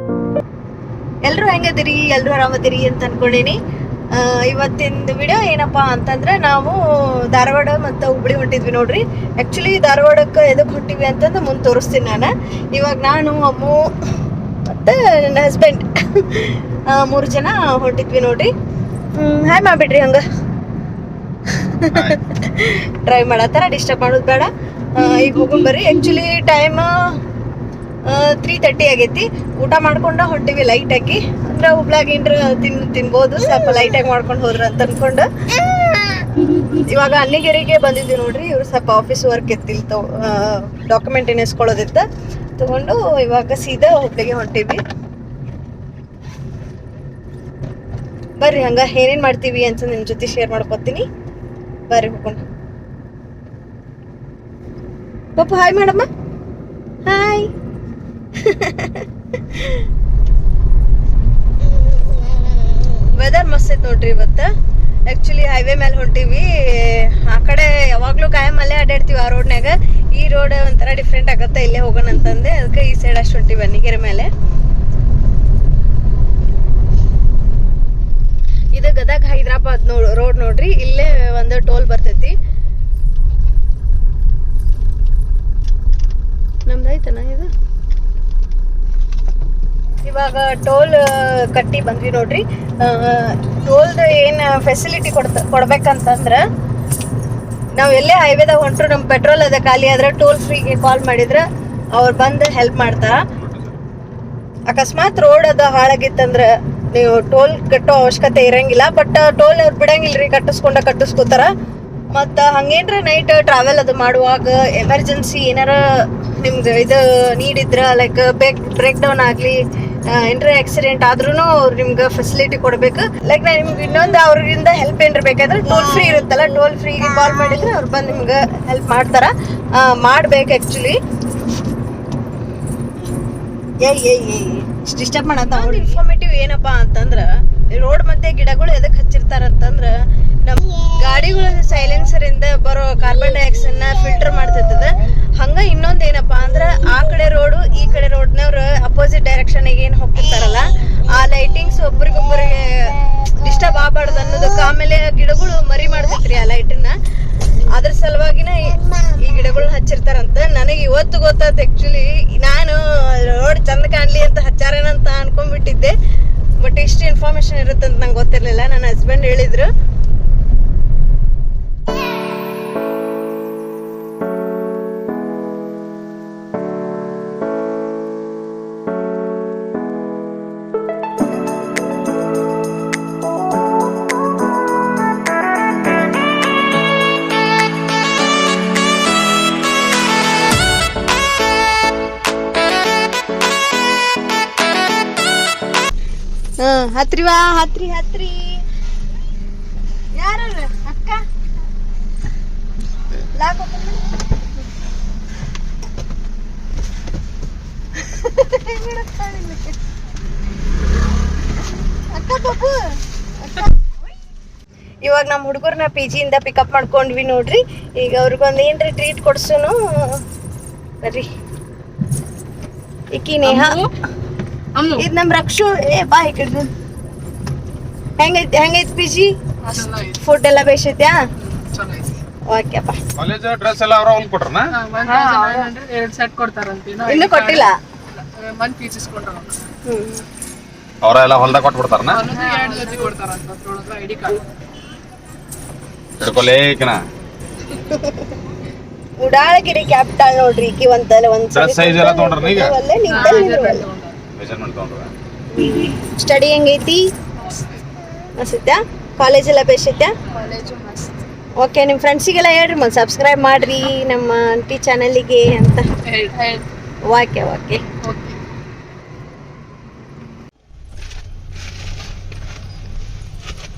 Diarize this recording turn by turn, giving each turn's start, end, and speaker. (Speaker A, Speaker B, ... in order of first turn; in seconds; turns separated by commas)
Speaker A: 1.2-3.6, Speaker A: 4.1-13.9, Speaker A: 14.7-18.5, Speaker A: 19.2-20.2, Speaker A: 21.5-27.2, Speaker B: 21.9-22.2, Speaker A: 28.1-35.3, Speaker A: 36.6-42.0, Speaker A: 42.6-44.8, Speaker A: 48.4-51.0, Speaker A: 51.9-52.4, Speaker A: 55.4-56.0, Speaker A: 57.0-57.5, Speaker A: 58.4-59.8, Speaker A: 63.1-64.5, Speaker A: 65.1-74.3, Speaker A: 78.7-82.3, Speaker A: 86.7-87.5, Speaker A: 90.0-96.4, Speaker A: 97.8-103.2, Speaker B: 103.4-103.8, Speaker A: 104.7-111.5, Speaker A: 112.1-131.0, Speaker A: 133.8-157.0, Speaker A: 157.6-166.0, Speaker A: 166.6-169.7, Speaker A: 196.6-198.6, Speaker A: 200.2-201.2, Speaker A: 203.3-204.1, Speaker A: 208.0-209.8, Speaker A: 212.1-212.8, Speaker A: 215.0-220.2, Speaker A: 223.1-223.8, Speaker C: 223.4-223.9, Speaker C: 224.8-225.1, Speaker A: 225.0-226.7, Speaker A: 228.2-229.3, Speaker C: 229.6-230.2, Speaker A: 230.1-231.2, Speaker C: 231.4-232.1, Speaker A: 232.5-233.0, Speaker B: 233.2-234.7, Speaker C: 234.7-239.6, Speaker A: 237.1-237.8, Speaker A: 239.8-240.2, Speaker B: 241.0-242.3, Speaker C: 242.1-244.4, Speaker B: 246.2-247.0, Speaker A: 247.8-248.3, Speaker A: 249.2-253.9, Speaker B: 251.5-252.8, Speaker C: 253.1-254.2, Speaker B: 254.3-255.1, Speaker A: 255.5-257.0, Speaker A: 258.4-260.1, Speaker C: 260.3-261.1, Speaker A: 261.6-265.9, Speaker C: 266.1-266.7, Speaker A: 267.1-267.9, Speaker C: 268.0-268.4